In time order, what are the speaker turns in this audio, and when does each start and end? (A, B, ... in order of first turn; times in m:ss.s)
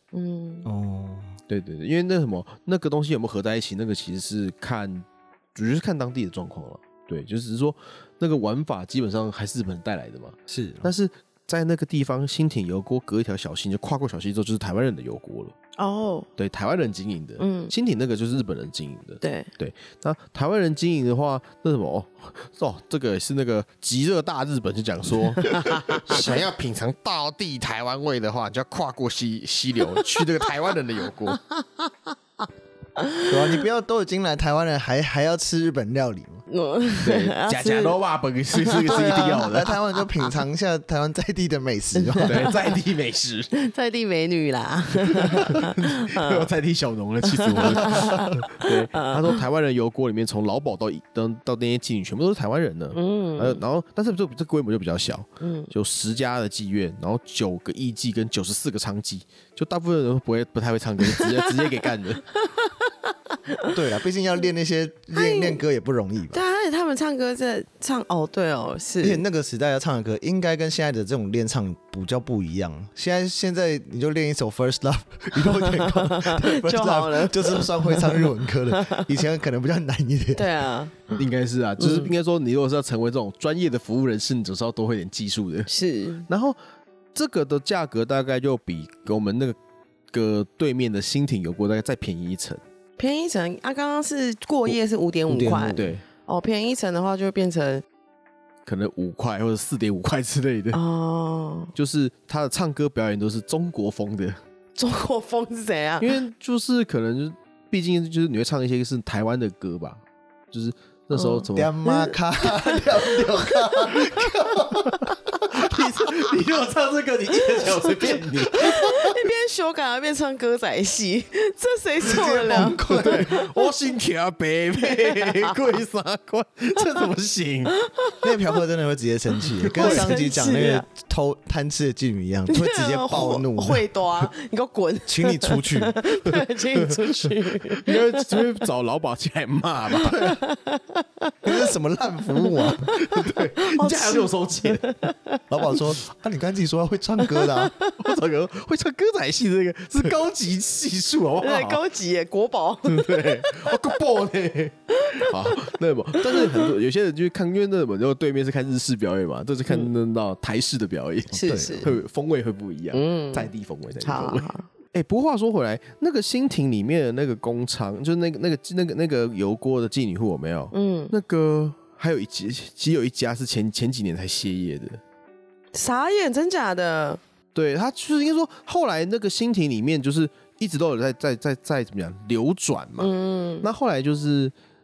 0:00.1-0:00.7 A
0:00.6-0:01.3 B
0:01.5-0:15.5 C
0:10.5-0:10.9 B
0:15.8-0:16.3 A
0:16.4-0:31.4 C
0:17.4-0:17.7 A
0:19.2-0:19.5 A
0:25.5-0:26.3 A
0:31.3-0:31.9 A
0:33.0-0:33.6 A
0:33.3-0:36.4 B
0:36.5-0:38.0 A
0:37.0-0:39.7 C
0:38.5-0:40.0 A
0:38.9-0:42.5 B
0:41.9-0:42.7 A
0:42.2-0:43.5 C
0:43.5-0:46.5 A
0:45.1-1:02.2 C
0:47.2-0:49.4 A
0:52.9-0:53.6 A
0:55.4-0:55.7 A
1:01.0-1:01.8 A
1:02.3-1:03.7 A
1:03.7-1:06.4 B
1:05.1-1:05.6 A
1:06.3-1:09.2 A
1:09.0-1:20.4 B
1:15.4-1:19.1 A
1:20.4-1:21.2 A
1:21.2-1:25.7 C
1:21.8-1:22.1 A
1:25.7-1:26.3 A
1:26.3-1:26.6 C
1:27.1-1:29.6 C
1:30.1-1:32.6 C
1:33.0-1:37.8 A
1:35.3-1:35.9 B
1:35.7-1:36.0 C
1:38.6-1:40.8 C
1:40.7-1:41.7 A
1:41.7-1:44.4 C
1:44.8-1:46.2 A
1:46.0-1:50.0 C
1:50.5-1:51.8 C
1:51.1-1:55.8 A
1:51.5-1:55.1 B
1:55.5-1:59.1 C
1:57.5-2:03.7 A
2:02.0-2:03.3 B
2:02.9-2:07.8 C
2:04.8-2:05.5 A
2:07.8-2:08.3 A
2:08.2-2:13.8 B
2:09.6-2:10.1 C
2:09.7-2:10.9 A
2:12.5-2:18.5 A
2:15.1-2:15.9 B
2:16.7-2:20.4 C
2:19.9-2:21.7 A
2:21.4-2:22.9 B
2:22.4-2:25.8 A
2:22.9-2:24.9 C
2:25.5-2:27.7 B
2:27.2-2:28.0 A
2:28.0-2:31.8 C
2:31.4-2:33.8 A
2:32.8-2:55.0 C
2:34.9-2:35.6 A
2:36.2-2:36.7 A
2:41.3-2:42.0 B
2:41.3-2:41.9 A
2:42.9-2:44.7 A
2:50.7-2:51.1 A
2:55.7-2:57.2 A
2:57.5-3:04.5 C
3:03.0-3:03.7 A